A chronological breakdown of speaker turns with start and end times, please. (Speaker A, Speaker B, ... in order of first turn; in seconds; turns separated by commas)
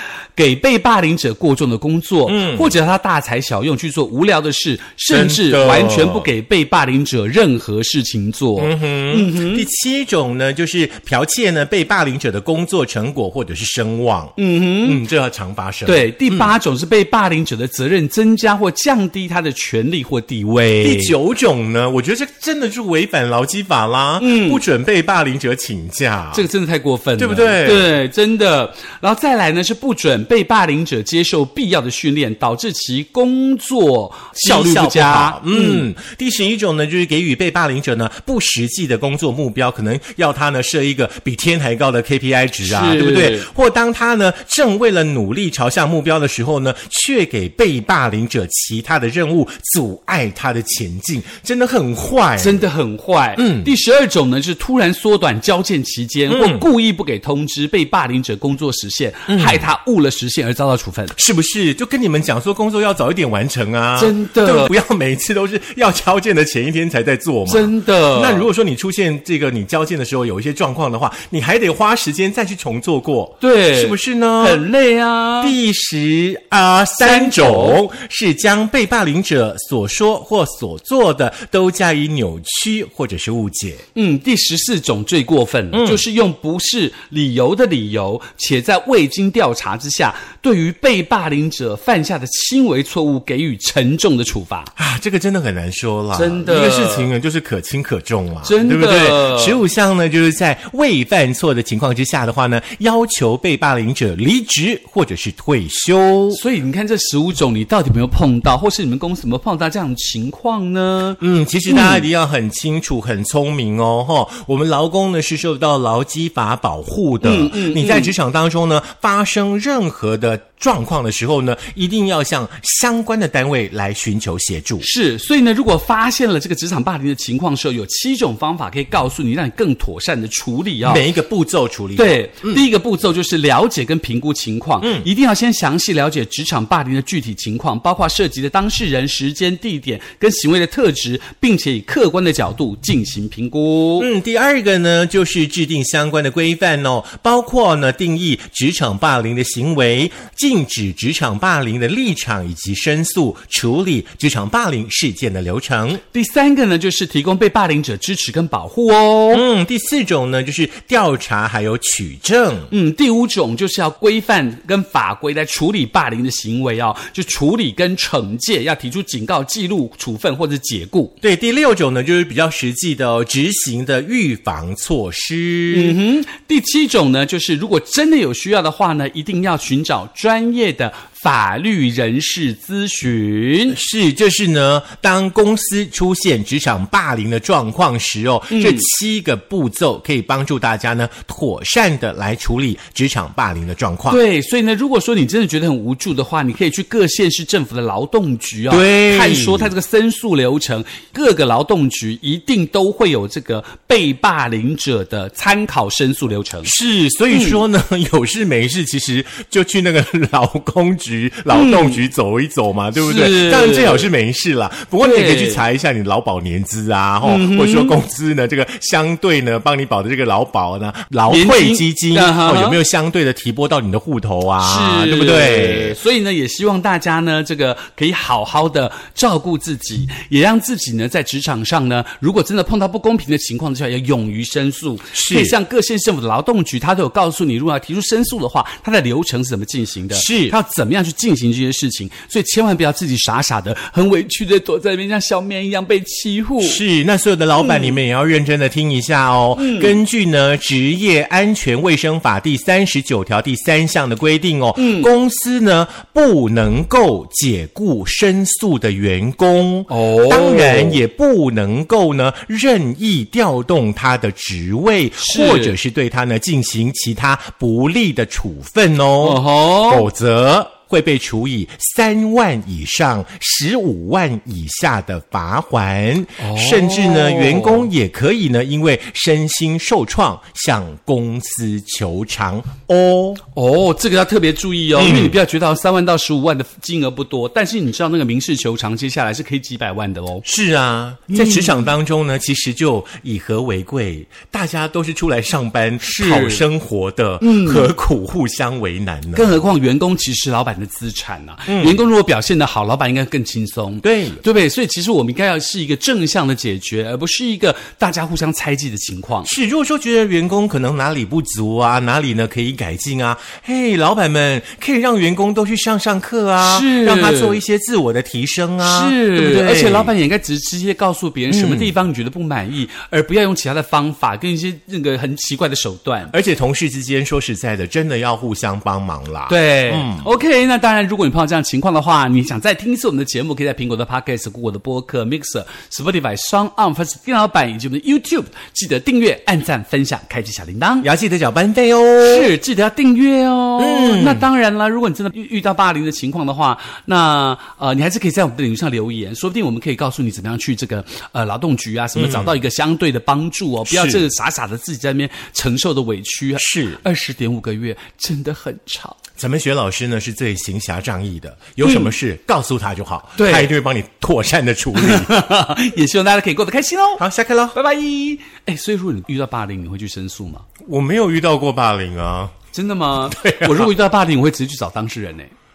Speaker A: 0.3-9.7, Speaker B: 2.2-2.8, Speaker B: 5.1-6.3, Speaker B: 8.6-16.5, Speaker A: 14.4-15.0, Speaker A: 15.8-21.1, Speaker B: 20.8-26.4, Speaker A: 24.2-24.6, Speaker A: 26.3-35.9, Speaker B: 27.2-27.9, Speaker B: 34.4-52.7, Speaker A: 42.6-43.5, Speaker A: 52.4-61.1, Speaker B: 53.4-53.7, Speaker B: 56.3-56.7, Speaker B: 59.3-59.6, Speaker B: 61.1-74.6, Speaker A: 64.0-64.7, Speaker A: 67.5-68.5, Speaker A: 73.4-75.5, Speaker B: 75.4-83.8, Speaker A: 77.0-77.8, Speaker A: 83.9-94.7, Speaker B: 85.7-86.0, Speaker B: 94.8-106.4, Speaker A: 96.1-97.1, Speaker A: 98.4-99.6, Speaker A: 106.3-112.0, Speaker B: 111.2-124.8, Speaker A: 117.2-118.1, Speaker A: 124.8-131.0, Speaker B: 130.8-132.6, Speaker A: 131.9-144.1, Speaker B: 134.8-135.1, Speaker B: 144.0-156.0, Speaker A: 156.1-159.4, Speaker B: 159.3-162.7, Speaker A: 162.7-171.1, Speaker B: 171.2-176.0, Speaker A: 175.7-183.8, Speaker B: 183.7-194.2, Speaker A: 188.5-188.9, Speaker A: 194.1-206.7, Speaker B: 198.7-199.7, Speaker B: 206.6-226.0, Speaker A: 207.3-207.6, Speaker A: 211.5-212.0, Speaker A: 212.9-214.1, Speaker A: 215.0-215.6, Speaker A: 217.2-218.0, Speaker A: 221.3-222.8, Speaker A: 224.6-246.8, Speaker B: 235.1-235.6, Speaker B: 240.1-240.6, Speaker B: 246.6-283.4, Speaker A: 247.6-247.9, Speaker A: 249.5-250.0, Speaker A: 254.8-255.1, Speaker A: 259.9-261.0, Speaker A: 265.2-265.8, Speaker A: 269.2-270.1, Speaker A: 276.4-277.9, Speaker A: 283.5-290.4, Speaker B: 284.9-285.4, Speaker B: 290.4-299.6, Speaker A: 291.3-291.9, Speaker A: 296.0-296.6, Speaker A: 297.4-297.9, Speaker A: 299.3-309.5, Speaker B: 301.7-302.0, Speaker B: 304.0-304.4, Speaker B: 309.4-320.1, Speaker A: 316.6-317.6, Speaker A: 318.8-326.3, Speaker B: 321.5-321.9, Speaker B: 326.3-330.3, Speaker A: 329.5-341.1, Speaker B: 341.0-342.5, Speaker A: 342.2-359.2, Speaker B: 343.8-344.4, Speaker B: 352.1-352.5, Speaker B: 353.9-354.2, Speaker B: 356.6-357.0, Speaker B: 359.4-365.3, Speaker A: 361.8-362.1, Speaker A: 363.4-363.7, Speaker A: 364.9-367.2, Speaker B: 367.2-367.8, Speaker A: 367.7-370.6, Speaker B: 370.9-372.5, Speaker A: 372.7-375.5, Speaker B: 373.3-374.0